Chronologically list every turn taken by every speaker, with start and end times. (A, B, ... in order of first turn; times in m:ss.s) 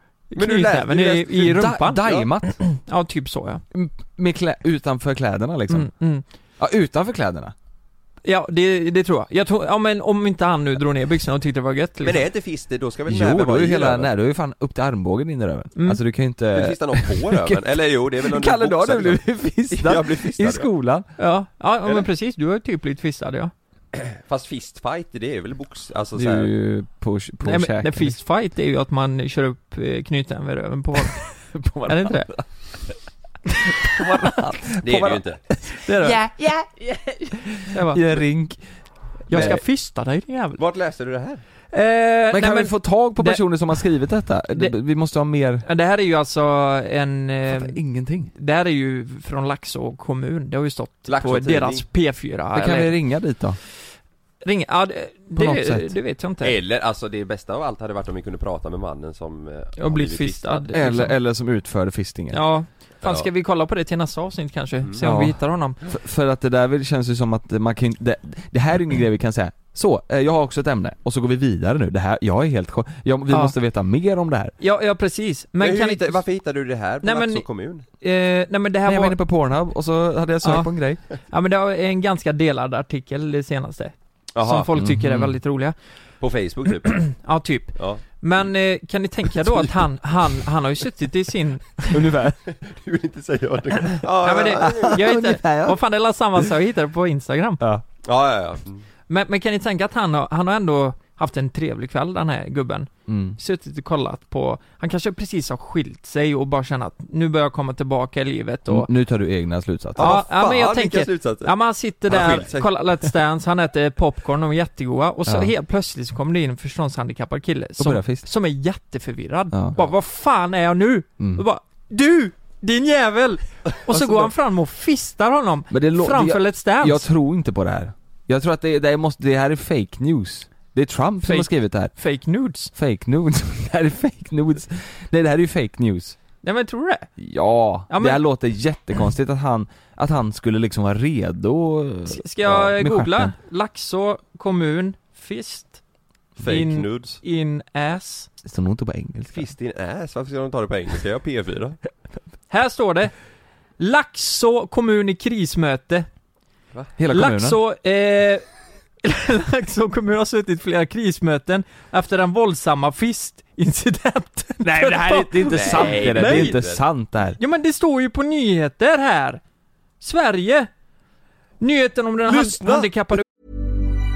0:00.3-0:03.6 A
0:00.4-0:01.4 B
0:01.3-0:02.6 C
0:03.7-0:05.9 C
0:05.7-0:06.2 A
0:06.6-0:07.5 C
0:08.2-0:12.2 A
0:12.0-0:14.1 B
0:13.1-0:17.6 C
0:16.5-0:20.7 B
0:18.2-0:21.1 C
0:21.2-0:23.5 A
0:23.9-0:26.5 B
0:26.2-0:28.2 C
0:27.4-0:32.3 A
0:31.5-0:32.4 C
0:33.6-0:34.3 A
0:33.9-0:38.6 C
0:34.8-0:35.4 B
0:35.8-0:36.2 A
0:37.7-0:38.0 A
0:39.3-0:40.6 A
0:39.3-0:39.6 C
0:39.3-0:39.6 B
0:40.6-0:41.4 B
0:41.7-0:43.8 A
0:42.3-0:45.6 C
0:45.6-0:53.0 A
0:47.5-0:48.3 C
0:51.1-0:51.8 B
0:52.5-0:53.6 C
0:54.4-0:56.6 A
0:55.3-0:56.0 C
0:56.4-1:00.6 B
0:59.8-1:01.1 A
1:00.7-1:02.4 C
1:02.3-1:05.8 A
1:03.0-1:03.3 B
1:05.0-1:14.5 C
1:13.3-1:13.5 A
1:14.6-1:16.2 A
1:15.6-1:17.8 B
1:17.0-1:17.4 A
1:18.0-1:19.2 A
1:18.8-1:21.0 C
1:20.4-1:20.7 A
1:21.3-1:25.7 A
1:24.3-1:24.7 B
1:24.7-1:25.4 C
1:26.2-1:27.1 B
1:26.9-1:32.0 A
1:27.8-1:28.0 B
1:31.9-1:32.4 C
1:32.5-1:35.0 B
1:34.2-1:37.6 A
1:34.6-1:35.8 C
1:38.0-1:38.8 B
1:39.1-1:48.9 A
1:43.1-1:43.4 C
1:48.7-1:50.2 C
1:50.0-1:52.8 B
1:50.0-2:07.1 A
1:55.2-1:55.5 C
1:57.8-1:58.2 C
1:59.5-1:59.8 C
2:03.9-2:04.3 C
2:05.7-2:11.9 C
2:11.2-2:12.7 A
2:12.7-2:16.2 C
2:16.4-2:17.1 A
2:17.2-2:23.3 C
2:17.9-2:18.2 A
2:22.1-2:25.8 A
2:26.4-2:27.2 B
2:26.4-2:28.3 A
2:28.4-2:29.5 C
2:29.3-2:31.8 B
2:32.5-2:33.1 A
2:33.8-2:36.1 A
2:37.0-2:37.6 C
2:37.1-2:38.4 A
2:39.0-2:46.6 A
2:44.6-2:47.4 C
2:45.5-2:46.8 B
2:47.4-2:49.4 A
2:50.0-2:50.7 A
2:51.6-2:53.2 A
2:52.3-2:52.9 B